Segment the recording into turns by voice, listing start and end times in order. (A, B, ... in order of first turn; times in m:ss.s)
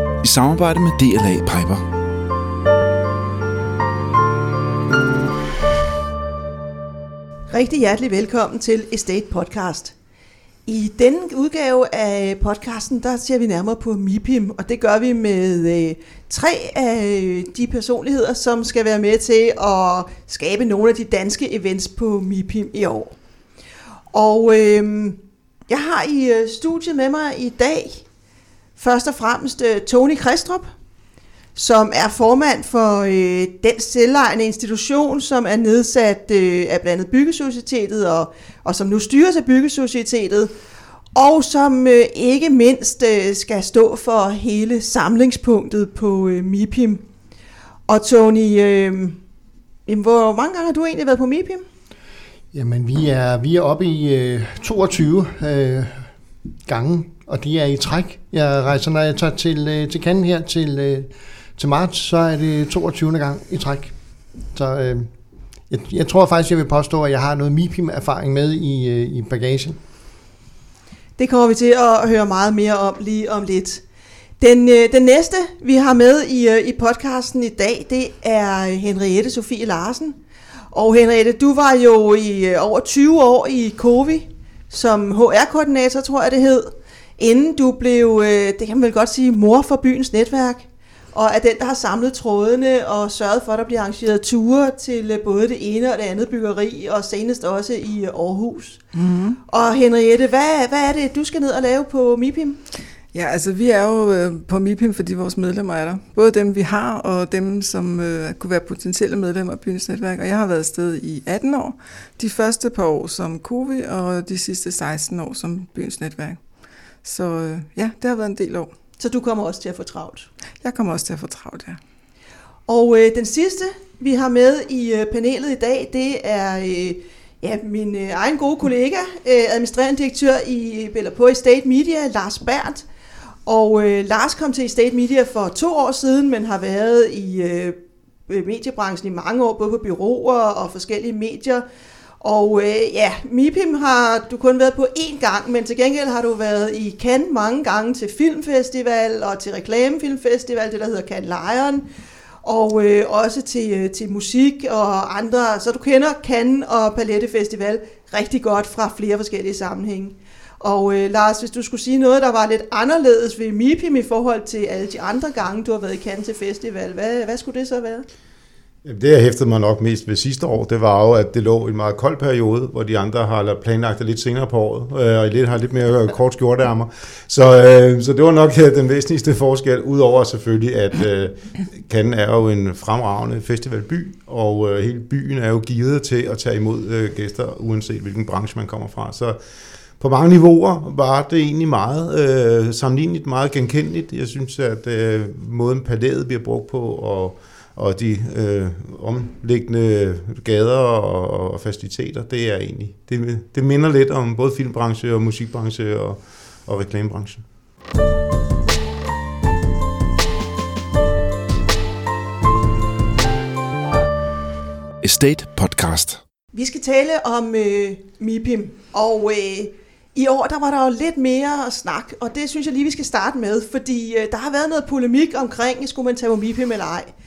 0:00.2-0:01.8 A
0:07.5-0:09.9 B
0:10.6-0:23.1 B
0:24.1-0:28.0 B
0:28.8-0:30.7 B
0:31.5-0:40.5 B
0:41.1-0:47.0 B
0:47.9-0:49.2 B
0:49.9-0:51.6 B
0:52.5-0:56.1 C
0:56.6-1:03.9 C
1:04.5-1:05.1 C
1:05.7-1:09.8 C
1:11.2-1:13.8 B
1:14.4-1:20.2 B
1:20.7-1:38.8 B
1:38.9-1:39.4 D
1:39.5-1:42.6 B
1:43.1-1:56.4 D
1:57.0-1:58.7 D
1:59.0-2:00.3 B
2:00.6-2:01.8 D
2:02.7-2:12.8 B
2:13.4-2:17.8 B
2:18.3-2:21.6 B
2:22.2-2:31.8 B
2:32.4-2:48.0 B
2:48.8-3:09.4 E
3:10.0-3:27.4 E
3:35.0-3:36.2 A
3:36.5-3:47.1 B